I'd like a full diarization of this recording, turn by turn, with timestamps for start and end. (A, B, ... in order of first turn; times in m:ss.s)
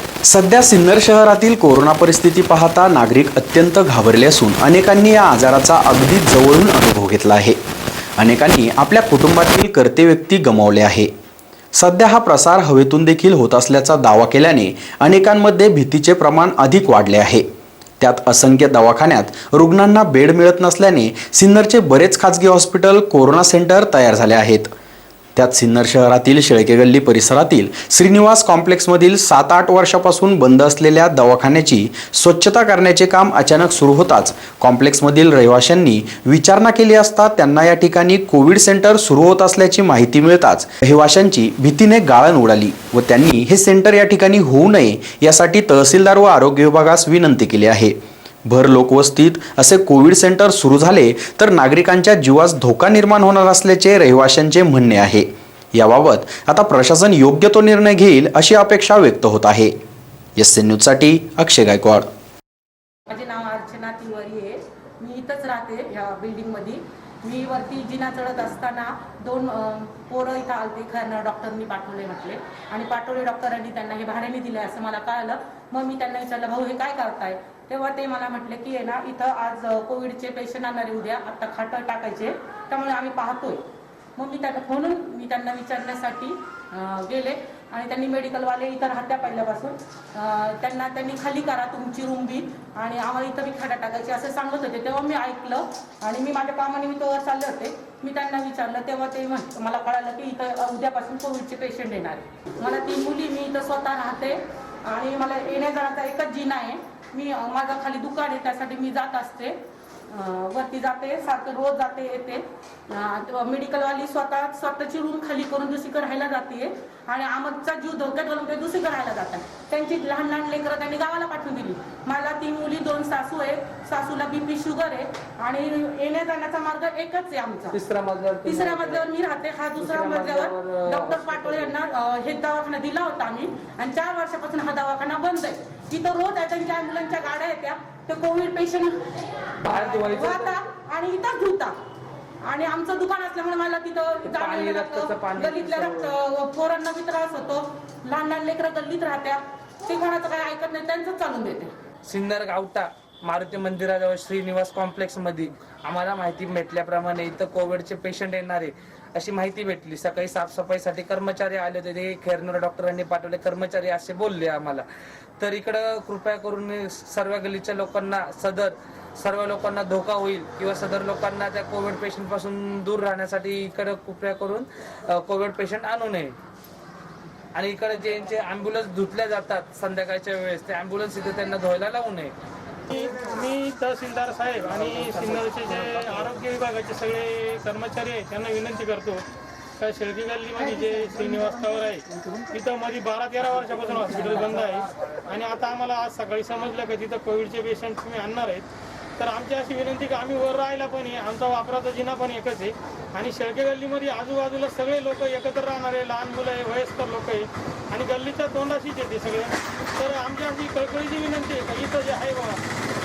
0:00.2-0:07.6 A
0:08.2-0:11.1 A
0:11.7-0:17.4 A
0:18.0-0:24.7 A
0:25.4-0:59.7 A
1:00.4-1:02.1 A
1:03.1-1:23.6 B
1:24.2-1:49.6 B
1:50.1-2:07.8 B
2:07.7-2:09.1 C
2:08.4-2:19.0 B
2:09.8-2:11.7 C
2:19.6-2:21.7 B
2:19.6-2:20.6 C
2:22.4-2:31.7 B
2:24.2-2:26.1 C
2:32.0-2:44.8 C
2:45.4-2:56.4 C
2:57.5-3:02.3 C
3:02.9-3:09.2 D
3:09.8-3:32.6 D